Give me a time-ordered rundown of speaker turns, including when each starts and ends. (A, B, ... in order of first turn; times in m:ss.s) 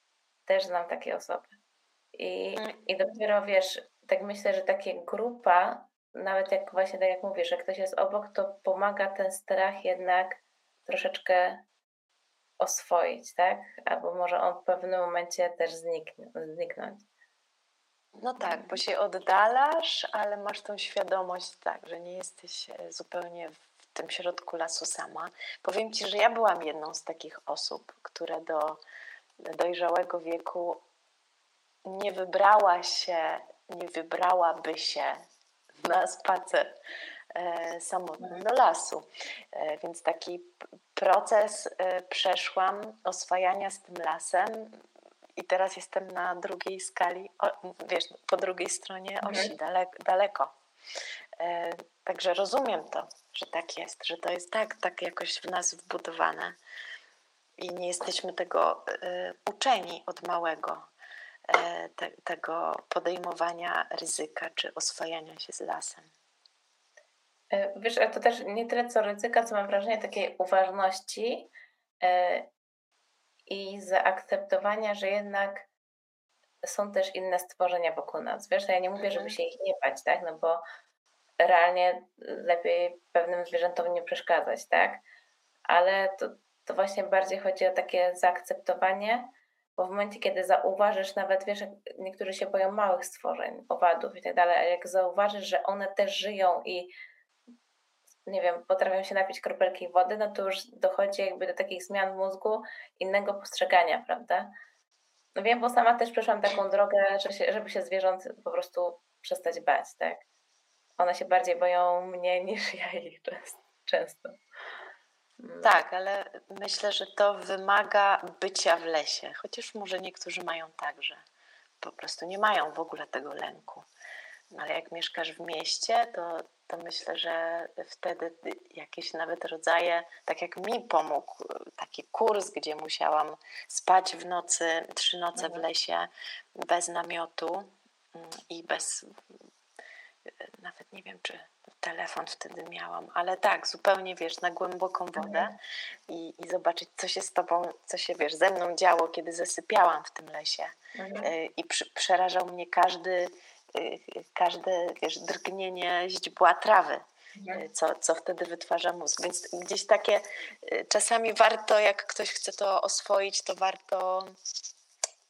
0:00.5-0:01.5 A
0:02.1-0:11.6 A
0:12.6-0:17.0 A
0:18.2-0:28.8 B
0:18.4-0:18.8 A
0:29.4-0:30.8 B
0:31.8-0:35.2 B
0:35.8-0:36.8 B
0:37.3-0:44.8 B
0:45.4-0:50.5 B
0:49.2-0:49.5 A
0:51.4-0:56.6 B
0:57.6-1:00.9 B
1:01.5-1:06.1 B
1:07.5-1:12.5 A
1:13.5-1:15.7 A
1:16.6-1:20.6 A
1:19.0-1:19.4 B
1:21.4-1:25.0 A
1:25.7-1:36.9 A
1:38.2-1:44.5 A
1:45.4-1:50.2 A
1:51.0-1:54.4 A
1:55.4-1:55.7 A
1:55.6-2:01.2 B
2:01.8-2:03.9 B
2:04.5-2:19.1 B
2:15.4-2:15.6 A
2:20.4-2:44.3 B
2:25.2-2:25.5 A
2:31.0-2:31.3 A
2:37.4-2:37.6 A